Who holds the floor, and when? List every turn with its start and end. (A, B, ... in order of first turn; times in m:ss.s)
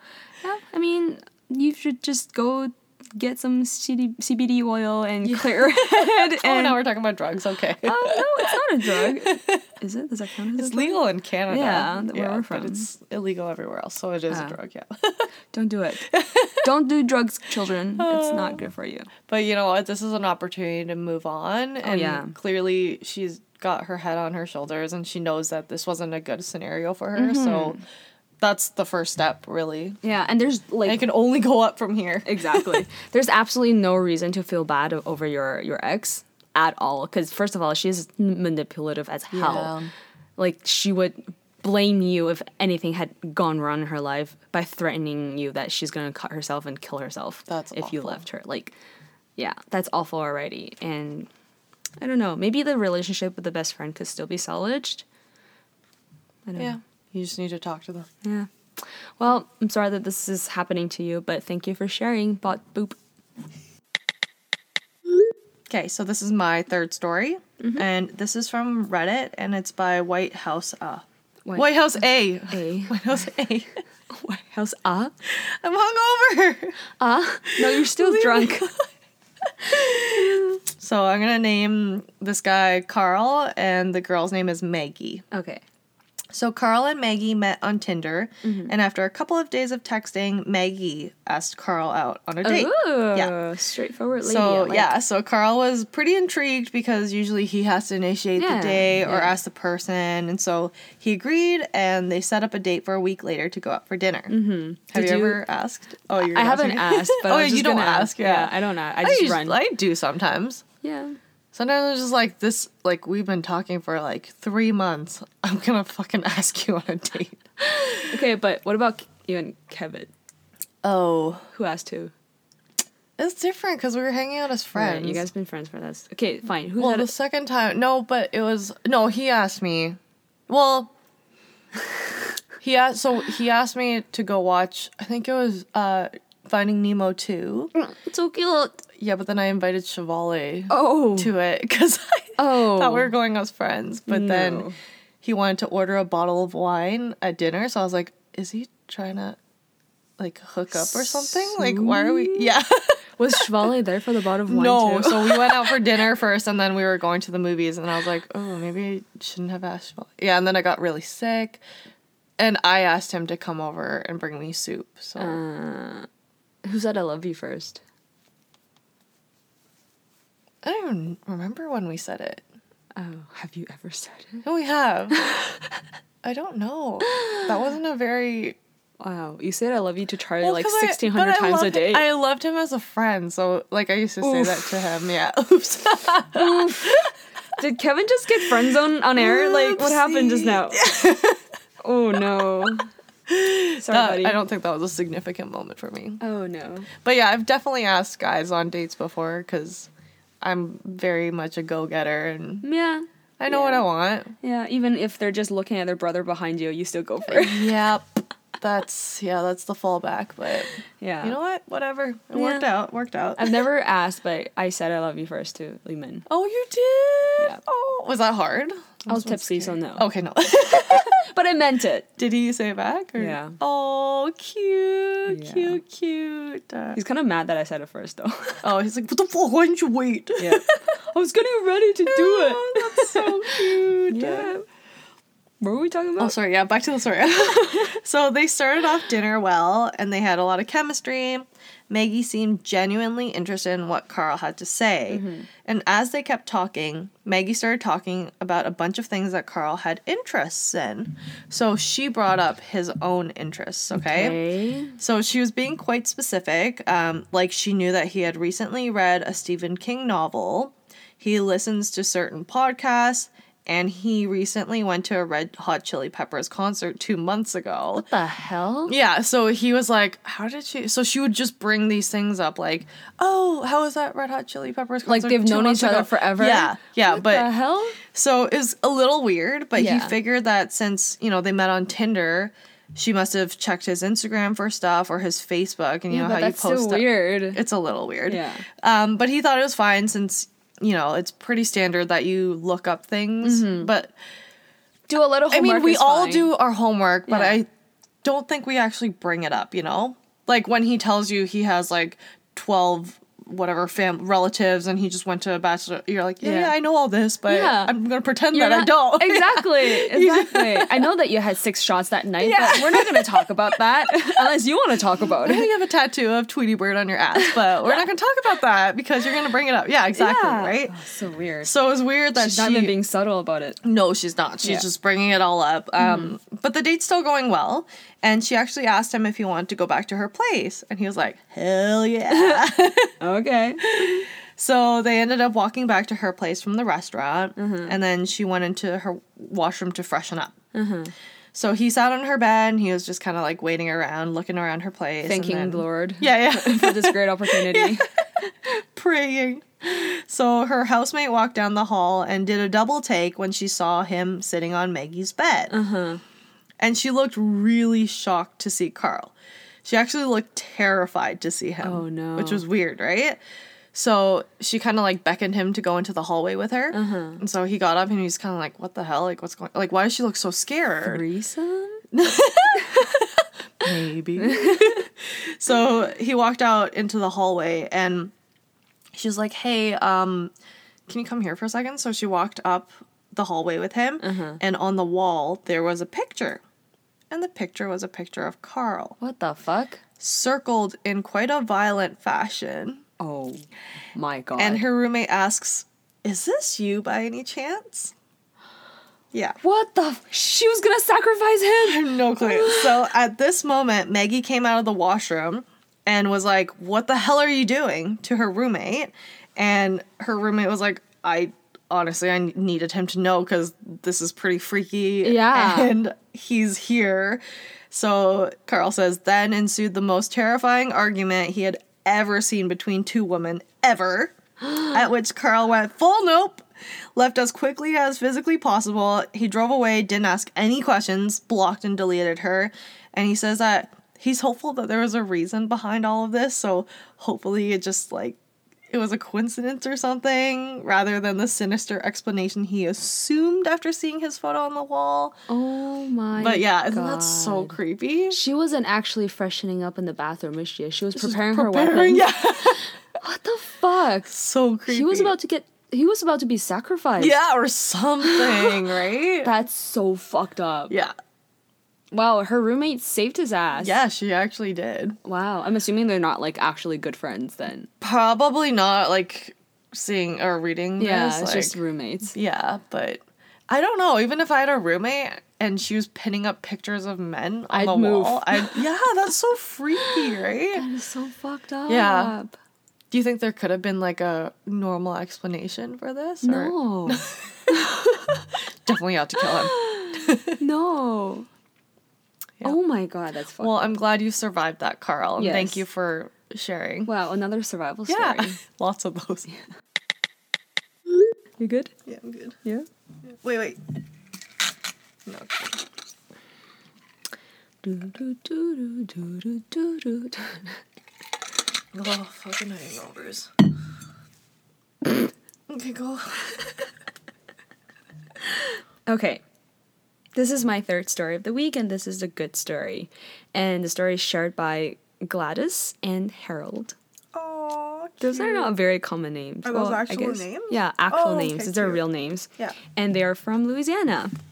0:00.4-0:06.8 A
0:05.2-0:09.6 B
0:07.8-0:12.9 A
0:10.6-0:15.3 B
0:14.3-0:14.6 A
0:15.5-0:19.1 A
0:16.1-0:16.7 B
0:18.0-0:18.6 B
0:19.2-0:27.8 B
0:21.8-0:22.4 A
0:27.2-0:27.8 A
0:28.4-0:30.0 B
0:30.0-0:31.0 A
0:30.8-0:32.9 B
0:32.3-0:39.7 A
0:39.3-0:39.9 B
0:40.4-0:48.7 A
0:47.5-0:48.3 B
0:49.4-0:51.3 A
0:52.0-0:55.0 A
0:56.5-0:56.8 A
0:56.6-0:58.1 B
0:58.2-1:03.0 A
1:05.7-1:11.0 B
1:07.6-1:07.8 A
1:11.6-1:13.8 B
1:12.5-1:13.0 A
1:14.1-1:15.1 A
1:15.2-1:16.8 B
1:17.0-1:18.7 A
1:17.5-1:18.9 B
1:19.5-1:25.2 B
1:20.2-1:20.6 A
1:25.3-1:25.6 A
1:26.3-1:33.4 B
1:28.4-1:28.7 A
1:32.4-1:34.9 A
1:34.2-1:44.3 B
1:38.4-1:39.4 A
1:44.3-1:45.4 A
1:44.9-1:50.6 B
1:46.2-1:49.6 A
1:50.8-1:51.2 A
1:51.5-1:58.1 B
1:57.6-2:00.1 A
2:00.8-2:01.5 B
2:01.5-2:02.1 A
2:03.2-2:05.3 B
2:04.7-2:07.1 A
2:06.8-2:10.0 B
2:10.5-2:10.9 B
2:12.6-2:17.7 B
2:17.8-2:18.8 A
2:18.9-2:24.7 B
2:20.7-2:21.3 A
2:22.4-2:23.1 A
2:24.1-2:24.8 A
2:25.2-2:29.4 B
2:30.2-2:33.7 B
2:30.7-2:32.6 A
2:33.2-2:35.8 A
2:34.5-2:41.6 B
2:42.4-2:45.4 B
2:45.2-2:46.1 A
2:46.6-2:47.8 A
2:50.6-2:52.4 B
2:53.0-2:54.4 A
2:54.4-2:55.2 B
2:55.1-2:55.8 A
2:56.2-2:58.6 B
2:57.0-2:57.6 A
2:59.0-3:02.1 A
3:00.4-3:07.1 B
3:04.2-3:04.8 A
3:06.3-3:10.8 A
3:08.4-3:11.5 B
3:11.8-3:12.9 A
3:13.3-3:16.2 B
3:13.8-3:14.4 A
3:16.2-3:16.9 A
3:17.0-3:19.9 B
3:20.4-3:22.6 B
3:22.6-3:23.8 A
3:23.4-3:24.3 B
3:24.4-3:27.8 A
3:27.3-3:33.5 B
3:31.0-3:31.4 A
3:32.4-3:32.7 A
3:33.4-3:36.3 A
3:36.3-3:41.2 B
3:39.1-3:40.1 A
3:40.7-3:42.1 A
3:42.2-3:47.0 B
3:43.2-3:43.6 A
3:45.3-3:45.8 A
3:46.9-3:48.7 A
3:48.6-3:50.8 B
3:50.4-3:54.7 A
3:52.0-3:54.5 B
3:55.6-3:56.4 A
3:56.2-4:14.4 B
4:05.1-4:05.5 A
4:13.9-4:15.0 A
4:15.0-4:28.1 B
4:28.0-4:28.9 A
4:28.9-4:37.5 B
4:35.1-4:38.0 A
4:38.0-4:54.1 B
4:39.8-4:40.2 A
4:46.1-4:47.6 A
4:48.3-4:48.7 A
4:53.4-4:53.9 A
4:55.1-4:56.5 A
4:55.5-4:57.7 B
4:57.3-4:57.6 A
4:58.2-5:11.1 B
5:06.4-5:06.7 A
5:07.5-5:08.0 A
5:08.5-5:15.7 A
5:12.4-5:14.5 B
5:15.3-5:21.0 B
5:17.4-5:18.0 A
5:20.1-5:21.7 A
5:21.6-5:23.0 B
5:22.4-5:23.8 A
5:23.8-5:33.2 B
5:26.0-5:26.3 A
5:32.3-5:32.7 A
5:33.2-5:34.3 A
5:33.8-5:40.6 B
5:37.6-5:38.0 A
5:40.7-5:41.1 A
5:41.5-5:55.7 B
5:45.2-5:48.1 A
5:55.7-5:56.2 A
5:56.8-5:59.3 B
5:59.8-6:03.4 B
6:01.8-6:02.6 A
6:03.9-6:11.2 B
6:06.9-6:07.4 A
6:11.1-6:12.0 A
6:12.1-6:13.3 B
6:13.8-6:18.3 B
6:14.4-6:15.0 A
6:19.1-6:20.5 B
6:21.1-6:26.6 B
6:24.2-6:24.6 A
6:27.3-6:29.2 B
6:29.2-6:30.0 A
6:30.2-6:33.0 B
6:33.2-6:34.9 A
6:34.6-6:38.1 B
6:39.3-6:39.6 B
6:39.6-6:43.1 A
6:41.8-7:18.4 B
6:55.2-6:55.9 A
7:04.7-7:04.9 A
7:18.9-7:25.4 B
7:25.5-7:27.8 A
7:26.3-7:28.4 B
7:28.3-7:34.3 A
7:31.1-7:32.8 B
7:34.3-7:35.3 B
7:34.9-7:37.4 A
7:37.2-7:39.5 B
7:38.2-7:38.7 A
7:39.4-7:41.0 A
7:42.1-7:44.0 A
7:43.8-7:45.2 B
7:45.2-7:47.9 A
7:48.0-7:51.8 B
7:51.0-7:52.4 A
7:52.3-8:00.9 B
7:57.7-7:58.8 A
8:00.0-8:02.6 A
8:01.9-8:02.4 B
8:03.1-8:08.0 B
8:06.4-8:08.4 A
8:08.8-8:10.6 B
8:09.4-8:11.5 A
8:12.6-8:13.9 A
8:13.6-8:17.1 B
8:15.4-8:15.8 A
8:17.1-8:18.6 A
8:18.1-8:19.5 B
8:21.6-8:21.9 A
8:22.0-8:22.6 B
8:23.3-8:23.8 B
8:25.3-8:25.8 B
8:27.8-8:30.7 A
8:31.9-8:33.6 B
8:35.7-8:36.7 B
8:38.6-8:39.4 A
8:40.4-8:47.0 A
8:47.3-8:48.7 B
8:48.2-8:54.3 A
8:49.6-8:52.0 B